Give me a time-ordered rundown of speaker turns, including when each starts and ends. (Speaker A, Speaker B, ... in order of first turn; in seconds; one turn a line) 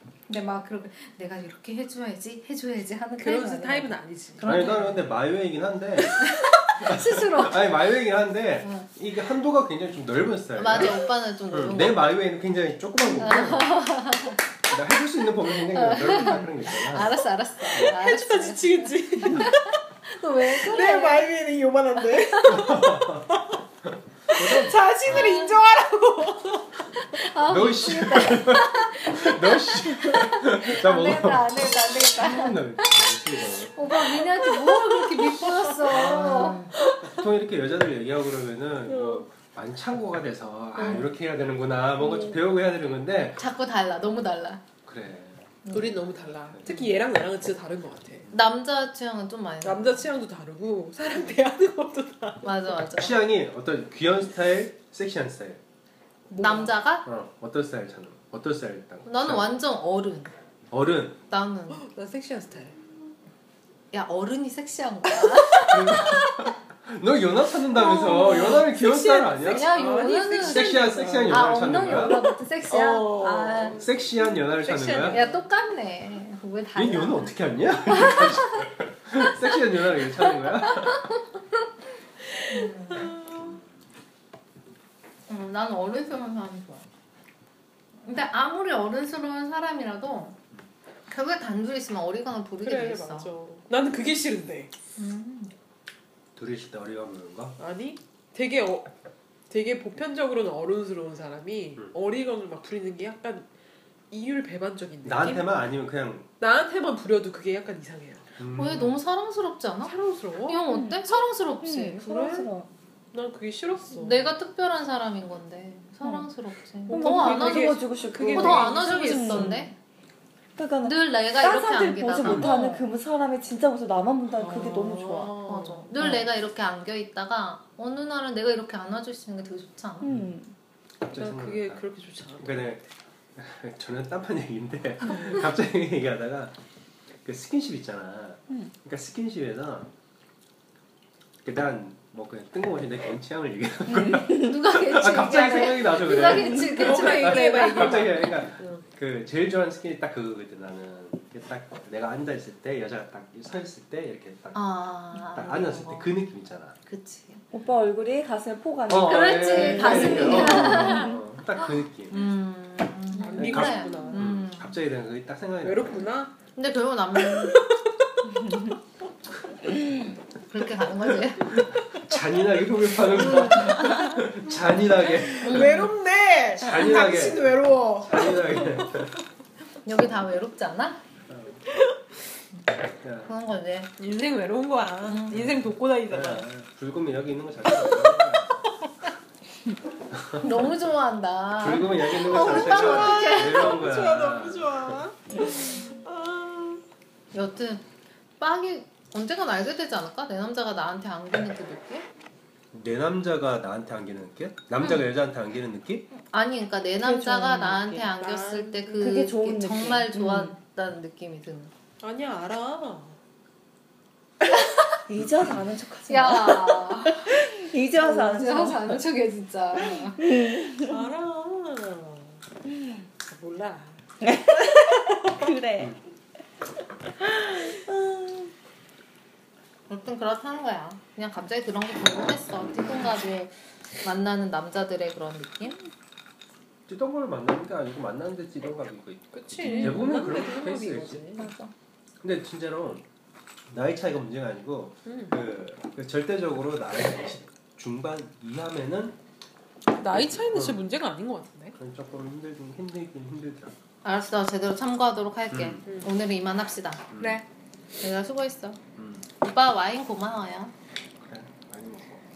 Speaker A: 0.3-5.1
Speaker B: 3.2-4.5
Speaker C: 4.4-13.8
Speaker A: 6.2-7.7
Speaker A: 8.6-8.9
Speaker A: 10.6-12.1
Speaker A: 13.1-14.4
Speaker C: 14.7-17.2
Speaker A: 15.6-21.3
Speaker B: 17.7-19.8
Speaker B: 20.5-23.6
Speaker A: 22.1-22.6
Speaker C: 22.5-25.3
Speaker B: 24.3-26.8
Speaker A: 25.1-25.6
Speaker A: 26.9-36.7
Speaker C: 27.5-33.9
Speaker B: 34.1-37.1
Speaker C: 35.8-43.4
Speaker B: 38.9-39.2
Speaker A: 40.8-41.1
Speaker B: 40.8-41.1
Speaker B: 42.0-42.4
Speaker A: 43.4-44.6
Speaker C: 44.9-45.4
Speaker A: 45.6-46.1
Speaker B: 45.7-48.2
Speaker A: 48.3-50.0
Speaker B: 49.6-52.6
Speaker A: 52.4-53.1
Speaker C: 53.0-55.6
Speaker B: 56.3-56.7
Speaker A: 56.4-57.0
Speaker C: 57.0-59.5
Speaker A: 59.0-60.3
Speaker C: 60.7-61.2
Speaker A: 61.3-61.8
Speaker B: 61.7-62.8
Speaker A: 63.9-66.2
Speaker B: 65.1-66.3
Speaker C: 65.7-72.2
Speaker A: 67.7-68.7
Speaker B: 67.8-73.8
Speaker A: 69.4-73.8
Speaker C: 73.8-75.2
Speaker B: 74.4-75.4
Speaker A: 75.1-77.3
Speaker C: 76.7-81.1
Speaker A: 77.9-78.5
Speaker A: 80.6-81.2
Speaker B: 82.3-83.6
Speaker A: 82.5-83.1
Speaker C: 83.4-83.7
Speaker A: 85.3-86.9
Speaker A: 88.0-90.4
Speaker A: 91.1-93.3
Speaker B: 92.6-94.7
Speaker A: 95.0-95.5
Speaker C: 96.3-97.5
Speaker B: 97.6-98.9
Speaker B: 99.5-103.5
Speaker B: 104.1-105.5
Speaker C: 105.0-106.3
Speaker B: 106.4-108.3
Speaker C: 108.4-109.0
Speaker A: 108.5-109.9
Speaker B: 109.8-110.7
Speaker A: 110.5-112.1
Speaker D: 110.7-111.0
Speaker D: 111.6-112.7
Speaker B: 112.0-112.5
Speaker B: 113.1-114.3
Speaker A: 113.9-119.7
Speaker B: 116.9-119.6
Speaker D: 116.9-119.7
Speaker D: 120.5-125.4
Speaker A: 120.8-122.8
Speaker C: 122.2-122.5
Speaker B: 124.3-125.9
Speaker A: 125.4-130.1
Speaker D: 126.0-126.2
Speaker D: 130.0-130.5
Speaker C: 130.0-130.3
Speaker C: 131.0-131.8
Speaker B: 131.1-132.8
Speaker C: 132.4-132.8
Speaker C: 133.3-136.5
Speaker B: 135.1-135.4
Speaker C: 137.2-139.9
Speaker C: 141.4-156.8
Speaker D: 143.9-144.6
Speaker A: 144.3-148.4
Speaker D: 146.2-146.6
Speaker B: 146.6-148.8
Speaker A: 154.5-156.1
Speaker A: 156.8-157.4
Speaker D: 157.5-161.2
Speaker C: 158.9-162.2
Speaker A: 159.0-164.7
Speaker B: 163.2-164.3
Speaker C: 163.3-166.1
Speaker B: 165.6-166.3
Speaker A: 166.5-167.6
Speaker B: 167.1-168.7
Speaker D: 168.4-168.7
Speaker A: 170.5-171.5
Speaker C: 171.5-175.9
Speaker B: 173.2-173.9
Speaker B: 175.4-178.9
Speaker A: 175.4-175.9
Speaker C: 176.6-179.1
Speaker A: 179.8-181.0
Speaker C: 181.3-181.6
Speaker C: 183.0-183.3
Speaker A: 183.2-183.9
Speaker B: 184.0-186.5
Speaker A: 185.1-185.4
Speaker C: 186.1-188.6
Speaker B: 187.8-188.2
Speaker C: 190.1-190.7
Speaker A: 190.4-193.8
Speaker C: 191.6-195.1
Speaker B: 192.1-196.8
Speaker A: 197.3-197.8
Speaker A: 198.4-202.1
Speaker C: 202.7-206.1
Speaker A: 204.8-205.1
Speaker A: 206.1-211.7
Speaker D: 207.0-208.0
Speaker B: 207.9-209.2
Speaker D: 209.0-210.6
Speaker B: 212.0-213.2
Speaker D: 215.1-219.0
Speaker A: 216.1-217.3
Speaker A: 218.0-220.2
Speaker D: 219.8-221.1
Speaker B: 220.8-222.4
Speaker B: 223.2-224.0
Speaker D: 224.2-225.9
Speaker B: 225.0-225.3
Speaker D: 227.2-228.5
Speaker A: 229.9-235.8
Speaker C: 232.6-233.0
Speaker C: 236.9-241.2
Speaker B: 239.3-241.5
Speaker D: 239.6-240.1
Speaker A: 241.4-241.7
Speaker C: 242.2-243.1
Speaker C: 243.7-249.2
Speaker B: 245.1-245.4
Speaker B: 250.0-251.8
Speaker C: 250.0-250.8
Speaker C: 251.8-253.7
Speaker A: 254.0-257.1
Speaker C: 255.5-255.8
Speaker B: 255.8-256.1
Speaker C: 257.1-257.4
Speaker A: 258.0-258.8
Speaker C: 259.0-259.2
Speaker A: 259.4-260.7
Speaker C: 261.2-262.2